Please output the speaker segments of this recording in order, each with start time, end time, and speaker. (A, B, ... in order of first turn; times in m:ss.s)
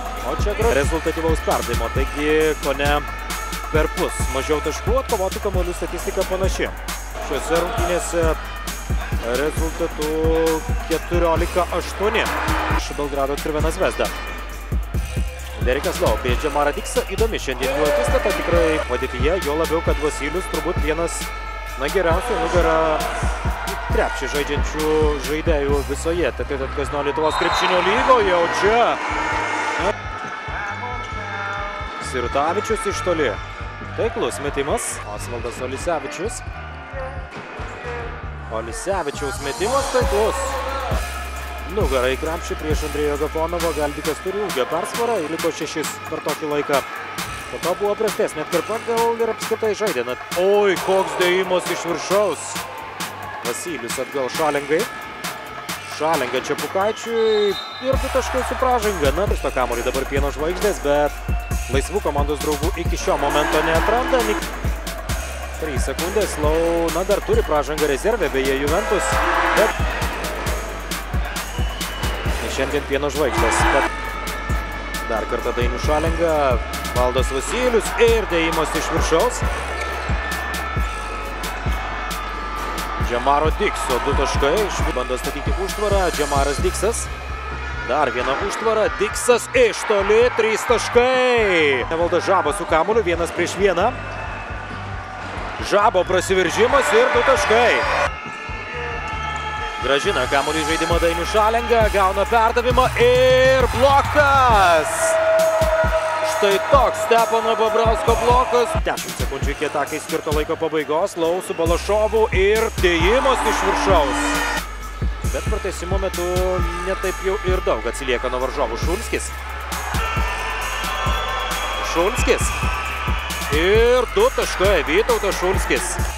0:00.2-0:03.1 A
0:03.7-0:08.4 A
0:09.2-0:14.1 A
0:15.6-0:23.1 A
0:23.7-0:29.0 A
0:31.9-0:33.4 A
0:33.9-0:36.4 A
0:38.5-0:40.6 A
0:41.6-0:46.9 A
0:47.5-0:52.6 A
0:53.4-0:54.9 A
0:55.8-1:04.5 A
1:05.6-1:09.7 A
1:12.4-1:13.9 A
1:15.0-1:19.4 A
1:23.0-1:27.1 A
1:27.8-1:34.0 A
1:35.6-1:37.9 A
1:39.8-1:45.2 A
1:46.2-1:54.4 A
1:55.2-1:59.3 A
2:01.8-2:02.6 A
2:03.5-2:06.0 A